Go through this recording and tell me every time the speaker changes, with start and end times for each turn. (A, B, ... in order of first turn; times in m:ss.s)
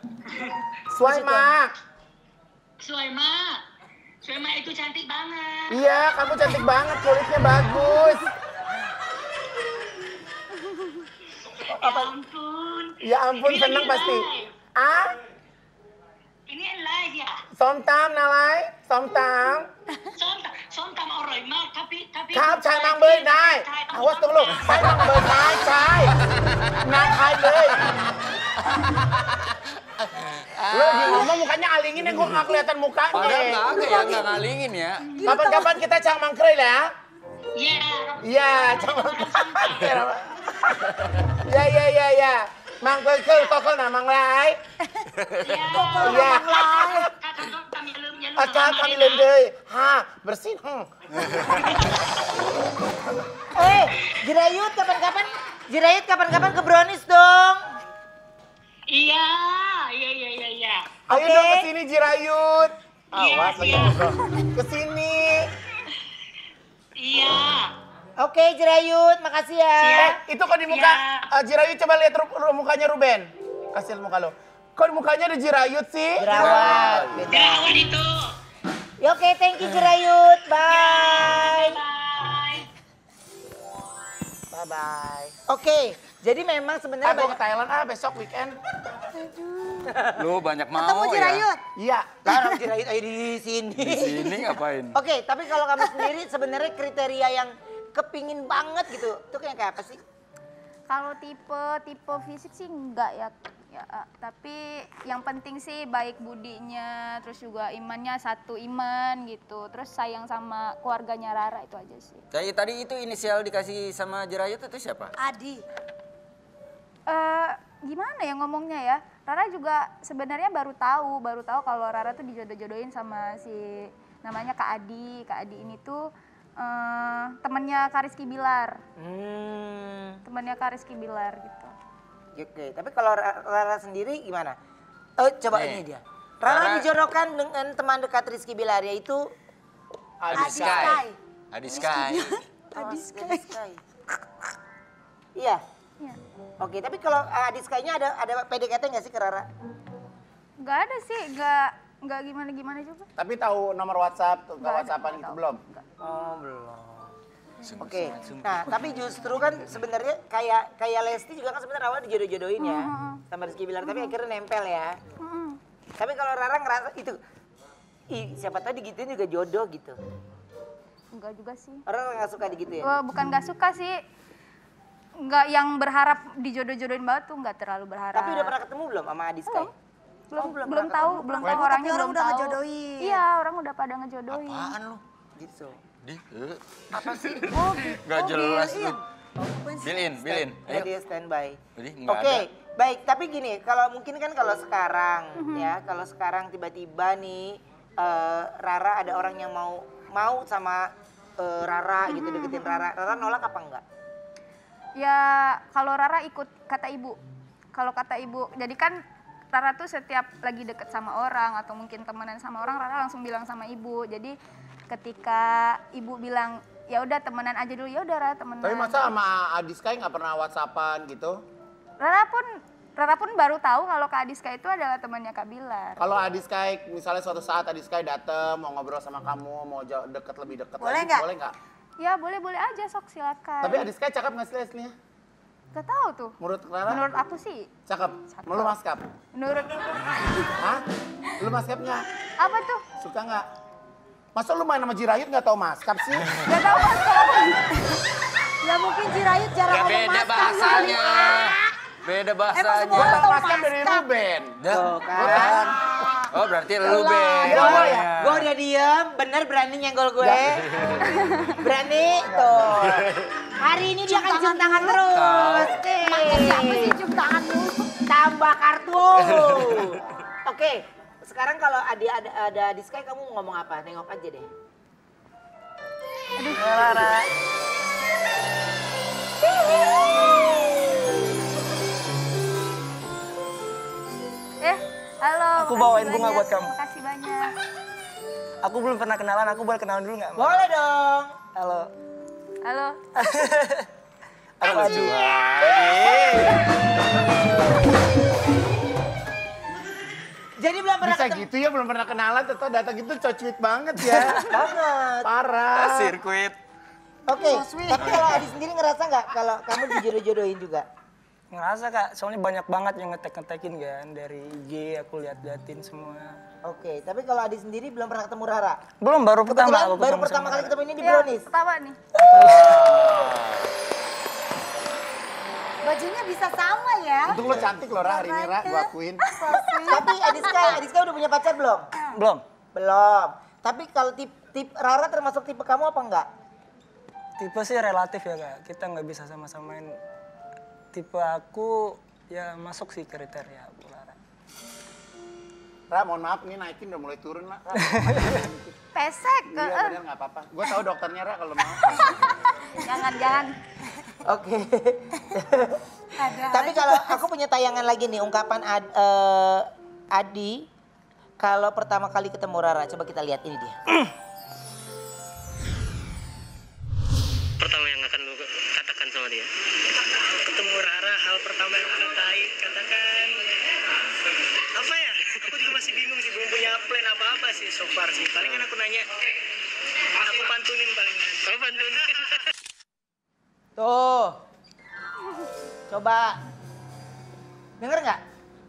0:00.3-0:00.6 A
0:00.9-0:01.7 B
0:01.0-0:01.5 C
0:02.8-0:03.6 A
0:04.2-0:05.8 A
0:05.7-0:08.3 B
0:11.5-0:14.5 A
0:13.0-0:15.2 B
0:16.5-0:17.4 A
0:17.6-0:19.7 B
0:20.1-0:25.2 A
0:22.3-0:26.1 B
0:26.3-0:26.8 D
0:26.8-0:28.0 B
0:28.7-0:29.4 D
0:30.3-0:31.3 D
0:30.7-0:34.2 B
0:33.1-0:35.2 D
0:35.2-0:36.9 B
0:35.2-0:35.5 E
0:37.6-0:40.0 A
0:38.2-0:40.3 B
0:41.3-0:44.6 B
0:45.2-0:45.4 D
0:45.4-0:49.3 A
0:45.6-0:47.1 E
0:46.0-0:47.0 B
0:48.4-0:50.9 B
0:53.5-0:57.6 F
0:58.9-1:00.8 A
1:01.1-1:05.5 B
1:01.1-1:01.7 F
1:03.1-1:04.2 A
1:07.0-1:07.7 A
1:08.2-1:10.2 F
1:09.8-1:11.2 A
1:10.1-1:17.2 B
1:16.2-1:17.7 F
1:16.3-1:16.8 D
1:17.3-1:18.1 A
1:19.0-1:21.8 F
1:20.6-1:22.7 A
1:24.5-1:25.4 B
1:25.5-1:27.4 F
1:27.0-1:28.5 B
1:29.1-1:30.1 E
1:30.0-1:31.5 D
1:30.7-1:31.6 E
1:31.8-1:32.3 B
1:32.2-1:40.0 F
1:32.3-1:32.5 E
1:33.8-1:35.0 D
1:40.9-1:52.2 G
1:52.3-1:55.1 D
1:55.2-1:55.6 E
1:57.1-2:08.8 G
2:09.0-2:10.2 F
2:10.2-2:11.7 G
2:12.4-2:14.6 F
2:15.2-2:19.3 F
2:15.5-2:15.8 D
2:16.4-2:16.9 D
2:20.2-2:21.0 B
2:20.3-2:22.4 D
2:20.3-2:23.5 E
2:22.7-2:23.8 F
2:25.4-2:25.6 F
2:26.6-2:29.5 F
2:30.6-2:33.1 G
2:33.2-2:35.6 B
2:34.6-2:35.8 G
2:36.0-2:37.1 F
2:37.6-2:38.7 D
2:37.8-2:45.0 F
2:42.6-2:43.2 G
2:43.8-2:44.1 G
2:45.2-2:45.6 G
2:46.0-2:47.2 F
2:48.1-2:50.0 F
2:51.1-2:51.8 G
2:51.9-2:52.9 F
2:52.8-2:54.0 G
2:55.2-2:58.5 G
2:58.1-2:59.7 F
2:59.5-2:59.7 G
3:00.3-3:04.7 G
3:00.3-3:01.6 F
3:01.4-3:03.2 E
3:04.3-3:05.0 D
3:05.4-3:05.8 F
3:06.0-3:09.0 D
3:06.9-3:07.4 B
3:07.5-3:10.4 E
3:09.8-3:10.9 D
3:10.2-3:23.8 F
3:11.8-3:12.4 D
3:15.4-3:15.7 G
3:22.1-3:22.9 G
3:25.0-3:27.2 G
3:27.7-3:29.0 G
3:29.5-3:34.3 G
3:34.9-3:39.2 G
3:38.6-3:41.4 B
3:42.0-3:46.0 G
3:46.0-3:51.5 B
3:50.8-3:51.2 E
3:52.0-3:53.9 G
3:53.6-3:54.9 B
3:55.7-3:56.4 G
3:56.4-3:57.0 B
3:56.9-3:57.7 G
3:57.9-3:59.0 B
3:58.3-3:58.7 G
3:59.3-4:00.6 G
4:00.6-4:00.8 B
4:01.4-4:02.0 B
4:02.4-4:02.8 G
4:03.0-4:03.4 B
4:04.4-4:06.3 B
4:06.4-4:08.0 G
4:08.6-4:11.6 E
4:09.6-4:13.2 D
4:12.5-4:14.0 E
4:12.9-4:14.6 B
4:14.6-4:15.6 D
4:14.7-4:16.0 F
4:15.1-4:15.9 B
4:16.3-4:18.5 D
4:16.8-4:20.6 F
4:16.9-4:18.1 B
4:20.2-4:20.5 B
4:21.0-4:21.6 G
4:21.6-4:23.0 F
4:22.1-4:23.0 B
4:23.6-4:27.0 F
4:24.0-4:28.0 E
4:25.1-4:25.7 D
4:28.1-4:34.5 F
4:36.4-4:37.1 G
4:36.5-4:37.3 C
4:44.6-4:47.5 G
4:45.6-4:46.7 C
4:48.6-4:50.6 C
4:50.4-4:51.3 F
4:51.5-4:51.9 C
4:52.6-4:53.0 G
4:53.2-4:53.9 C
4:54.6-4:55.1 C
4:54.6-4:55.3 B
4:54.6-4:56.6 D
4:55.8-4:56.6 F
4:56.0-4:56.5 B
5:00.6-5:01.5 F
5:01.0-5:04.5 B
5:04.4-5:05.3 F
5:05.2-5:06.2 B
5:05.8-5:06.6 D
5:07.3-5:10.8 F
5:07.3-5:08.4 E
5:11.5-5:16.4 C
5:16.6-5:18.8 F
5:19.0-5:20.7 C
5:19.5-5:21.5 F
5:21.0-5:22.0 G
5:22.2-5:22.4 F
5:22.3-5:22.8 C
5:22.4-5:23.4 B
5:22.4-5:23.7 D
5:25.8-5:27.4 E
5:27.2-5:29.3 B
5:27.4-5:27.8 D
5:27.9-5:30.8 E
5:29.7-5:31.9 F
5:32.1-5:32.4 C
5:32.7-5:36.3 F
5:37.4-5:40.0 C
5:40.9-5:44.2 C
5:45.9-5:48.8 B
5:47.8-5:48.4 C
5:48.9-5:50.0 G
5:49.5-5:52.2 B
5:51.9-5:53.6 G
5:54.2-5:55.8 F
5:56.2-5:57.2 E
5:56.4-6:00.6 F
6:01.4-6:03.8 F
6:07.6-6:09.5 H
6:10.2-6:13.4 H
6:14.7-6:19.1 H
6:20.1-6:22.3 H
6:23.8-6:24.4 F
6:25.9-6:26.4 F
6:27.8-6:28.2 F